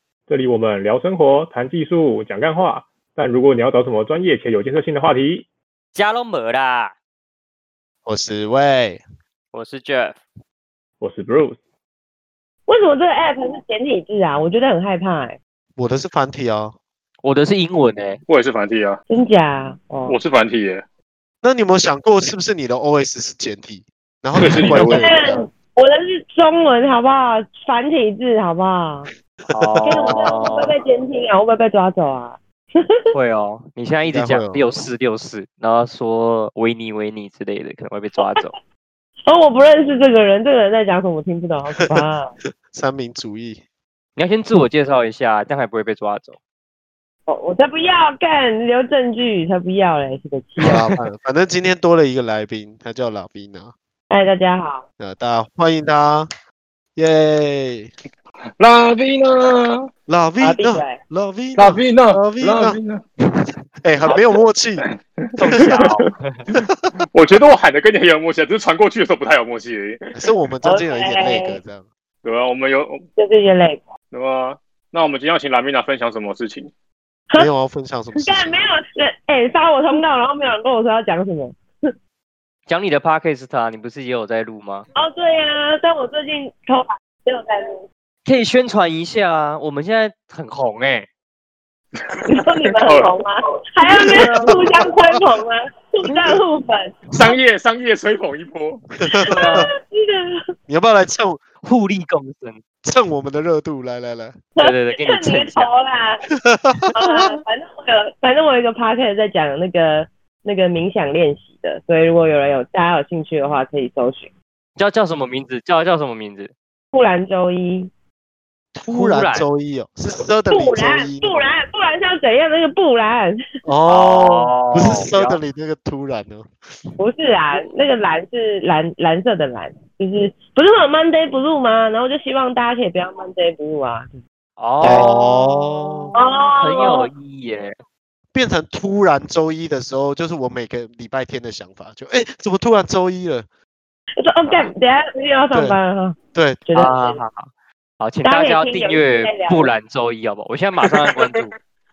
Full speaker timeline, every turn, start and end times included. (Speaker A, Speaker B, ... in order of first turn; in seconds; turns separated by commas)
Speaker A: 0.3-5.4, Speaker B: 5.9-6.9, Speaker C: 8.0-9.0, Speaker B: 9.5-10.2, Speaker A: 11.0-11.6, Speaker D: 12.7-15.4, Speaker C: 15.8-16.7, Speaker B: 17.2-18.2, Speaker E: 18.3-19.0, Speaker D: 19.1-20.2, Speaker E: 20.1-20.8, Speaker C: 21.4-25.4, Speaker E: 24.4-25.3, Speaker D: 24.7-29.1, Speaker C: 29.5-30.2, Speaker B: 29.5-30.7, Speaker D: 29.8-33.1, Speaker B: 33.1-38.5, Speaker C: 34.0-34.6, Speaker D: 39.3-42.3, Speaker C: 41.8-43.6, Speaker B: 44.2-46.4, Speaker D: 47.3-50.8, Speaker C: 50.6-53.7, Speaker D: 54.1-54.8, Speaker C: 55.0-56.3, Speaker C: 57.0-57.9, Speaker E: 58.6-59.9, Speaker C: 60.1-62.8, Speaker D: 60.4-61.0, Speaker E: 61.5-63.0, Speaker C: 63.4-64.8, Speaker D: 64.0-64.3, Speaker B: 65.3-66.4, Speaker E: 66.5-70.0, Speaker C: 70.1-71.8, Speaker D: 70.6-71.6, Speaker E: 72.2-73.0, Speaker D: 73.2-73.9, Speaker E: 74.1-76.7, Speaker C: 77.4-78.6, Speaker D: 78.2-81.9, Speaker B: 82.7-84.8, Speaker D: 85.0-87.8, Speaker B: 88.2-91.1, Speaker E: 92.1-93.1, Speaker D: 92.3-97.3, Speaker B: 94.1-94.6, Speaker E: 97.1-98.8, Speaker C: 99.0-99.7, Speaker D: 99.2-100.5, Speaker B: 99.2-99.7, Speaker C: 100.7-101.4, Speaker B: 101.6-102.6, Speaker C: 102.8-104.4, Speaker D: 104.6-106.2, Speaker B: 104.6-105.7, Speaker C: 106.4-107.4, Speaker D: 106.9-114.3, Speaker B: 114.8-116.5, Speaker D: 116.9-117.9, Speaker C: 118.7-121.5, Speaker B: 118.9-119.5, Speaker D: 120.5-123.4, Speaker C: 123.6-126.5, Speaker B: 123.9-125.4, Speaker D: 127.0-134.2, Speaker B: 134.6-137.8, Speaker C: 134.8-136.1, Speaker D: 136.1-137.1, Speaker C: 138.3-143.4, Speaker D: 144.2-147.2, Speaker C: 145.5-145.8, Speaker C: 146.3-146.6, Speaker B: 146.7-151.5, Speaker D: 148.2-149.7